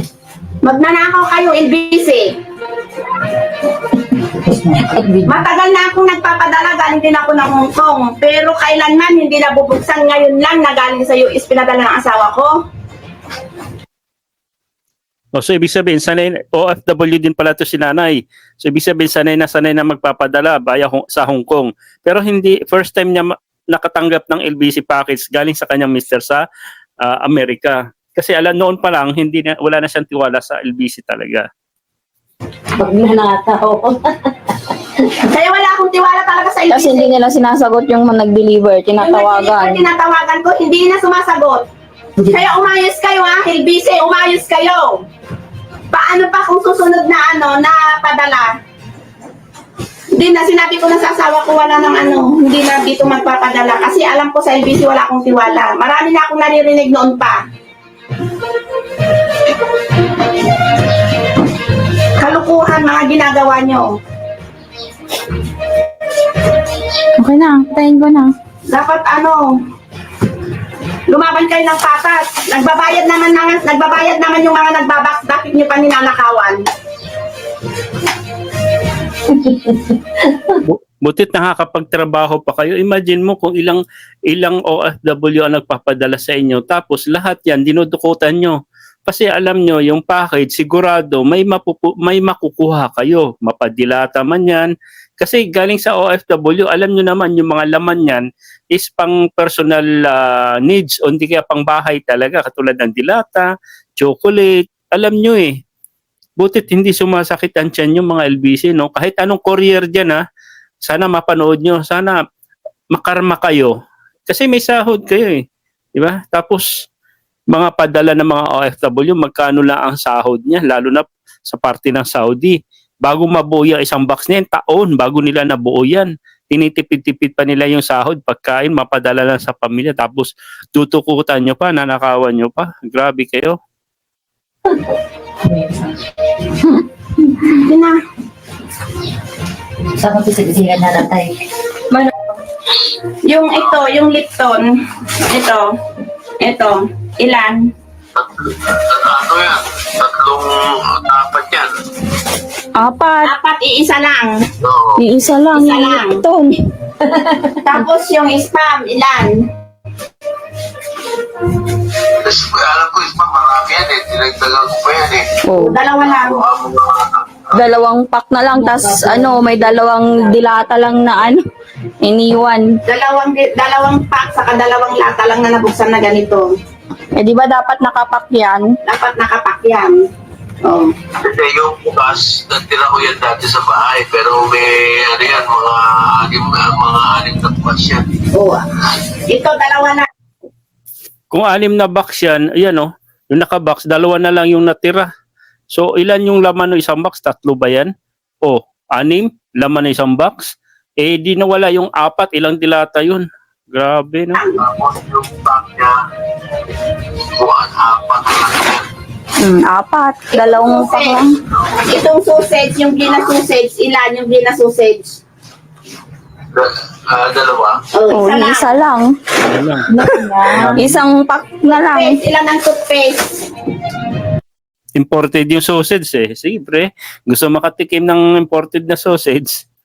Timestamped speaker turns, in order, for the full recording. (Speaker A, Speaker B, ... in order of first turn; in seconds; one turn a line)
Speaker A: 0.6-2.3
Speaker B: 4.5-4.8
Speaker A: 5.2-12.5
Speaker C: 15.3-26.4
Speaker C: 27.0-31.4
Speaker B: 32.8-34.0
Speaker A: 35.2-37.1
Speaker D: 36.7-39.8
Speaker A: 39.0-41.6
Speaker A: 42.3-45.0
Speaker A: 45.9-48.5
Speaker A: 50.1-57.4
Speaker A: 62.2-63.9
Speaker D: 67.2-68.3
Speaker A: 68.7-69.5
Speaker A: 71.1-76.6
Speaker C: 80.6-103.5
Speaker C: 104.0-105.5
Speaker C: 106.4-110.2
Speaker C: 110.8-112.2
Speaker C: 112.9-113.7
Speaker C: 114.3-115.4
Speaker C: 116.0-116.7
Speaker C: 117.5-133.5
Speaker A: 137.5-138.0
Speaker B: 140.0-141.3
Speaker A: 143.2-144.7
Speaker A: 145.2-145.7
Speaker A: 146.4-147.7
Speaker E: 148.1-151.7
Speaker D: 152.8-153.3
Speaker A: 153.2-154.4
Speaker E: 154.6-155.0
Speaker D: 154.9-156.6
Speaker A: 155.5-156.2
Speaker A: 157.6-159.4
Speaker E: 162.2-165.3
Speaker D: 165.4-165.8
Speaker A: 165.6-166.4
Speaker E: 166.0-167.8
Speaker D: 167.5-171.4
Speaker D: 172.0-172.7
Speaker A: 172.9-176.5
Speaker D: 177.2-178.8
Speaker A: 178.8-179.9
Speaker A: 180.6-180.9
Speaker E: 181.2-188.1
Speaker A: 188.3-188.6
Speaker A: 189.3-190.1
Speaker C: 191.3-195.1
Speaker C: 195.7-197.9
Speaker C: 198.4-200.5
Speaker C: 201.0-204.4
Speaker A: 204.3-204.6
Speaker E: 204.6-205.9
Speaker E: 207.3-208.8
Speaker D: 209.4-211.3
Speaker A: 210.3-211.2
Speaker A: 211.9-215.2
Speaker E: 216.5-217.8
Speaker A: 217.9-218.7
Speaker D: 218.1-219.1
Speaker C: 219.5-219.9
Speaker D: 219.9-222.2
Speaker C: 220.5-220.9
Speaker A: 221.7-223.3
Speaker C: 225.0-229.6